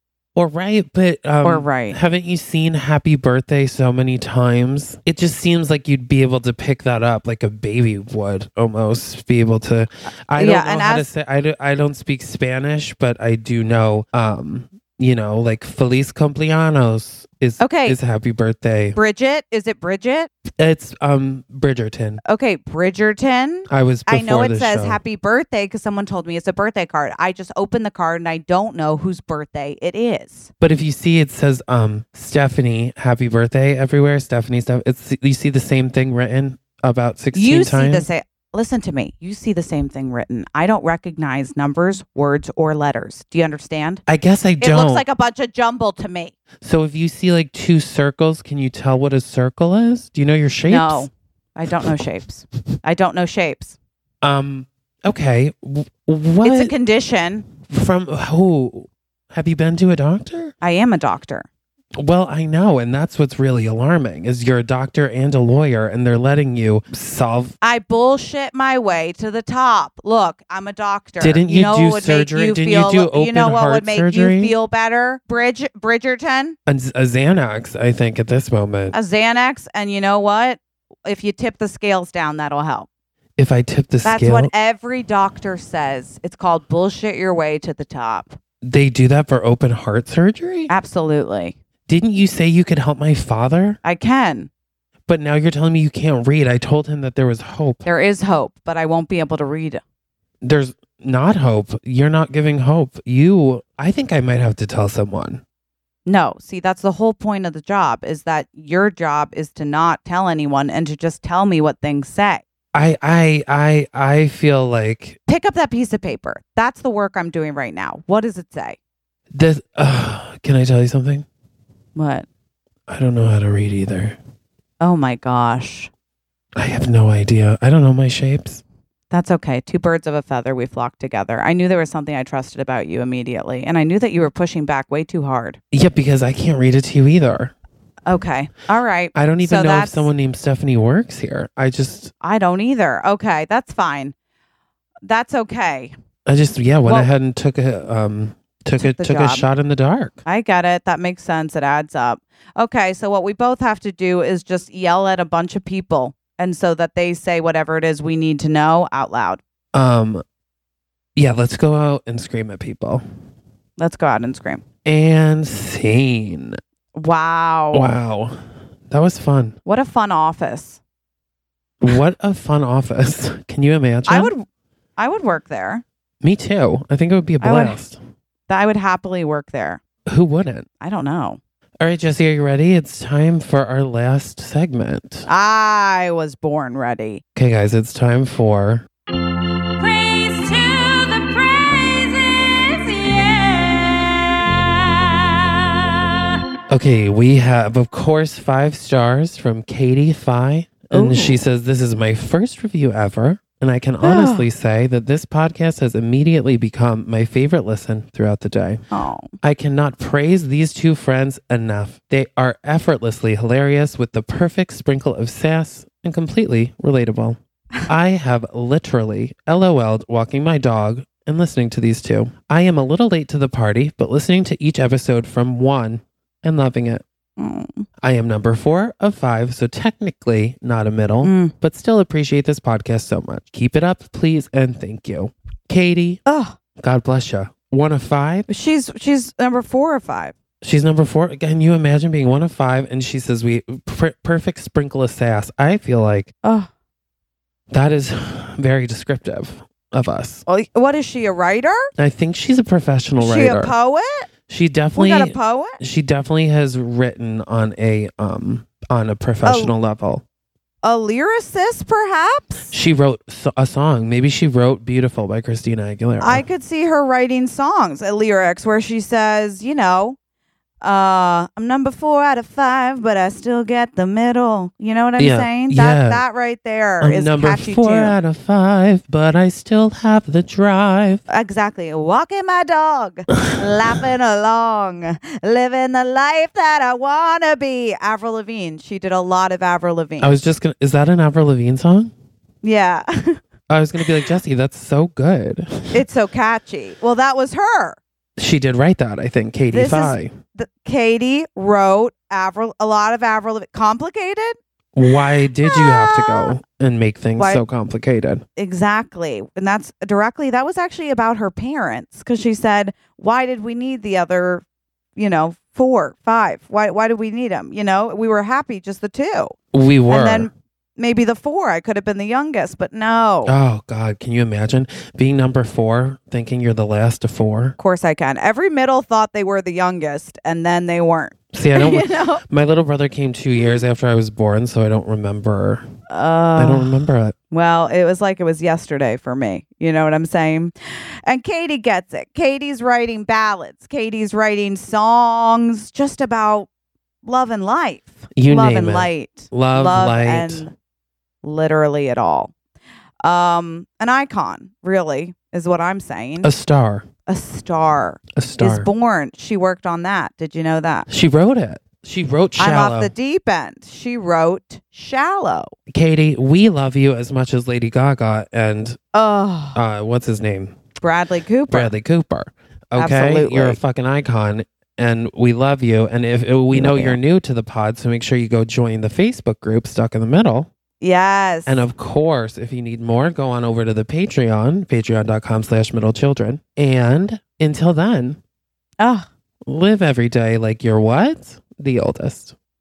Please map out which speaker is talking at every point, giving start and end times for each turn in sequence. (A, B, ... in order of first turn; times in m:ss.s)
0:00.4-0:19.0 A
0:01.4-0:02.0 B
0:10.4-0:11.1 B
0:17.6-0:18.0 B
0:19.0-0:20.3 B
0:20.6-0:22.2 A
0:22.2-0:30.5 B
0:23.7-0:25.0 A
0:30.6-0:38.1 A
0:37.3-0:44.0 B
0:44.1-0:45.0 A
0:44.6-0:46.4 B
0:46.6-0:51.1 A
0:50.7-0:53.8 B
0:54.2-0:56.7 A
0:56.4-0:57.5 B
0:57.6-1:00.5 A
1:00.6-1:01.5 B
1:02.0-1:07.6 A
1:07.6-1:16.6 B
1:11.2-1:14.6 A
1:16.7-1:19.0 A
1:18.9-1:22.9 B
1:23.4-1:24.5 A
1:24.0-1:28.4 B
1:28.6-1:30.7 A
1:30.7-1:31.6 B
1:31.9-1:33.8 A
1:33.8-1:34.5 B
1:35.1-1:37.8 A
1:37.8-1:39.8 B
1:40.4-1:45.4 A
1:46.1-1:52.4 B
1:52.7-1:55.2 A
1:55.3-1:58.8 B
1:59.3-2:01.3 A
2:02.0-2:02.3 B
2:02.9-2:04.2 A
2:04.8-2:05.9 B
2:06.6-2:08.6 A
2:09.1-2:15.6 B
2:15.7-2:17.5 A
2:18.1-2:20.1 B
2:19.2-2:22.1 A
2:22.2-2:24.2 B
2:25.0-2:25.9 B
2:26.3-2:30.2 A
2:28.8-2:29.4 B
2:30.3-2:39.4 B
2:39.7-2:40.2 A
2:41.2-2:43.0 A
2:43.8-2:44.6 B
2:44.8-2:46.6 A
2:47.0-2:48.0 B
2:47.7-2:48.4 A
2:48.9-2:49.6 A
2:49.6-2:50.8 B
2:51.8-2:54.3 A
2:54.1-2:54.4 B
2:55.0-2:55.8 B
2:56.2-2:58.0 A
2:57.4-2:57.8 B
2:58.5-2:59.8 B
3:00.1-3:00.7 A
3:00.8-3:01.4 B
3:01.8-3:05.3 A
3:05.3-3:07.2 B
3:07.4-3:08.9 A
3:09.8-3:14.0 C
3:16.7-3:28.8 A
3:20.9-3:21.4 B
3:24.0-3:24.5 B
3:28.9-3:29.3 B
3:29.4-3:47.0 A
3:47.4-3:47.9 B
3:48.0-3:56.2 A
3:51.2-3:51.5 B
3:56.3-3:56.6 B
3:56.8-3:58.5 A
3:58.5-4:00.4 B
4:00.6-4:06.3 A
4:06.4-4:06.7 B
4:07.7-4:10.4 A
4:10.5-4:11.9 B
4:12.0-4:13.7 A
4:13.2-4:14.3 B
4:14.5-4:20.2 A
4:15.0-4:15.8 B
4:19.4-4:19.7 B
4:20.8-4:22.7 B
4:22.7-4:26.4 A
4:26.2-4:30.2 B
4:30.8-4:38.2 B
4:35.2-4:36.2 A
4:37.0-4:41.2 A
4:41.3-4:50.4 B
4:50.2-4:52.1 A
4:52.6-4:53.4 B
4:53.7-4:56.0 A
4:54.0-4:54.3 B
4:55.9-4:58.0 B
4:58.4-5:00.3 A
4:59.7-5:04.6 B
5:04.9-5:08.4 A
5:05.6-5:06.6 B
5:07.4-5:07.6 B
5:08.6-5:14.6 B
5:15.2-5:19.6 B
5:19.7-5:20.5 A
5:20.1-5:23.5 B
5:23.5-5:27.8 A
5:27.8-5:32.4 B
5:31.5-5:35.8 A
5:36.1-5:46.7 B
5:36.6-5:37.4 A
5:47.2-5:50.7 B
5:48.4-5:50.7 A
5:51.4-5:52.5 B
5:53.2-5:56.5 B
5:56.4-5:57.1 A
5:57.3-6:01.1 B
5:58.4-5:58.9 A
6:01.1-6:03.1 A
6:02.6-6:05.7 B
6:05.9-6:09.0 A
6:09.1-6:09.8 B
6:09.8-6:10.8 A
6:11.0-6:11.9 B
6:11.7-6:20.7 A
6:13.0-6:13.8 B
6:16.7-6:17.2 B
6:21.0-6:21.8 B
6:21.7-6:28.4 A
6:29.0-6:29.3 B
6:29.7-6:32.6 A